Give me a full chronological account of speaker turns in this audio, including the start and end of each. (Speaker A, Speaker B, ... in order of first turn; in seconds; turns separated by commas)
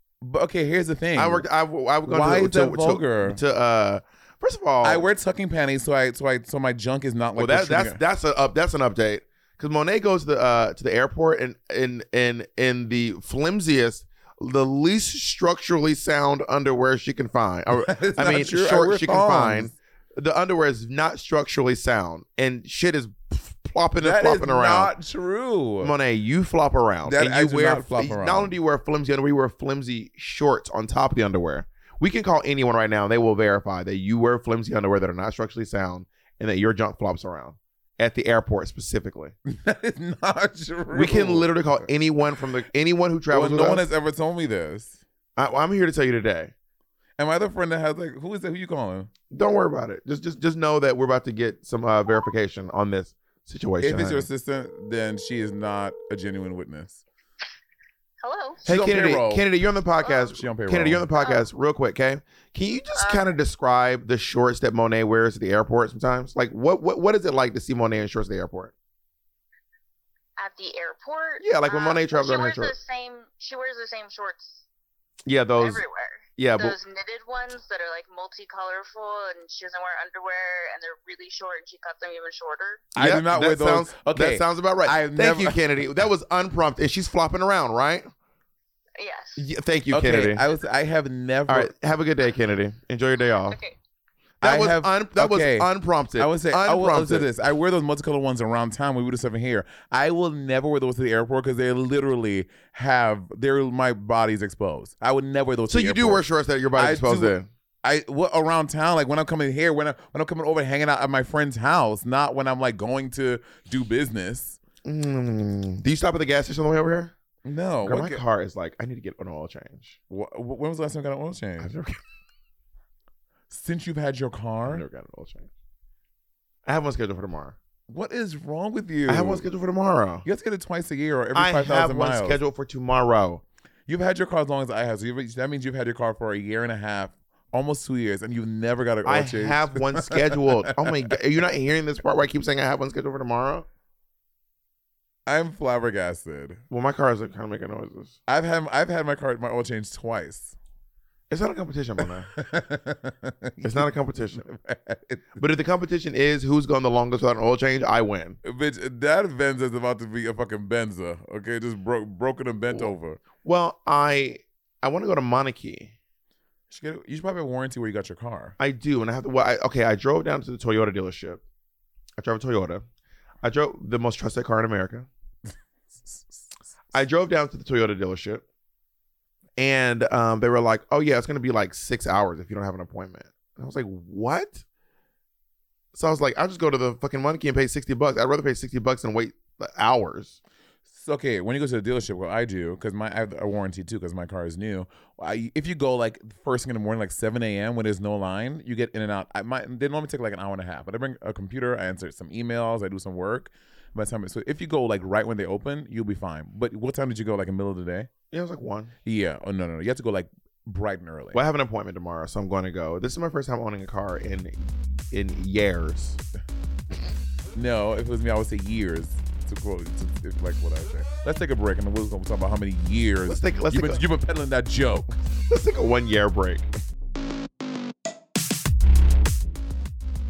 Speaker A: 0.2-1.5, Speaker B: 1.2-5.0, Speaker A: 2.1-3.4, Speaker A: 4.8-8.0, Speaker B: 7.4-24.9, Speaker A: 17.7-19.7, Speaker A: 24.0-25.9, Speaker B: 25.8-39.4, Speaker A: 27.1-28.5, Speaker A: 39.5-41.8, Speaker B: 40.9-43.9, Speaker A: 43.3-45.0, Speaker B: 45.4-46.5, Speaker A: 47.2-49.1, Speaker B: 49.3-54.3, Speaker A: 53.8-57.0, Speaker C: 58.2-58.7, Speaker A: 58.6-59.5, Speaker B: 58.7-68.7, Speaker A: 60.3-61.1, Speaker C: 61.2-61.5, Speaker C: 63.0-63.3, Speaker C: 70.4-74.7, Speaker B: 71.4-72.7, Speaker B: 75.3-75.8, Speaker C: 75.6-82.9, Speaker B: 76.4-76.8, Speaker A: 83.0-85.6, Speaker B: 83.0-88.1, Speaker C: 89.0-89.5, Speaker B: 89.4-90.4, Speaker A: 89.9-91.7, Speaker B: 91.5-93.6, Speaker C: 93.5-93.8, Speaker B: 94.4-97.3, Speaker A: 94.4-106.2, Speaker B: 105.7-107.5, Speaker A: 106.8-114.6, Speaker B: 114.8-117.1, Speaker A: 117.5-118.2, Speaker B: 117.8-120.0, Speaker A: 120.1-121.7, Speaker B: 121.6-122.0, Speaker A: 123.5-124.8, Speaker B: 124.7-125.5, Speaker B: 126.7-127.6, Speaker A: 127.9-129.4, Speaker B: 129.1-130.3, Speaker A: 130.2-132.4, Speaker B: 131.3-133.4, Speaker A: 133.9-141.1, Speaker B: 139.1-143.7, Speaker A: 145.3-146.6, Speaker B: 146.7-148.2, Speaker A: 148.3-150.6, Speaker B: 151.3-152.3, Speaker A: 152.3-155.4, Speaker B: 153.6-154.5, Speaker B: 155.4-158.4, Speaker A: 158.4-163.2, Speaker B: 162.7-165.9, Speaker A: 166.7-168.6, Speaker B: 168.6-171.4, Speaker B: 172.2-172.8, Speaker B: 173.4-175.1, Speaker A: 176.0-176.5, Speaker B: 176.9-178.4, Speaker B: 179.6-184.6, Speaker B: 185.9-190.4, Speaker A: 190.9-208.1, Speaker B: 208.3-208.9, Speaker A: 209.1-211.4, Speaker B: 211.3-216.2, Speaker A: 217.5-225.1, Speaker B: 223.3-224.0, Speaker B: 225.5-226.7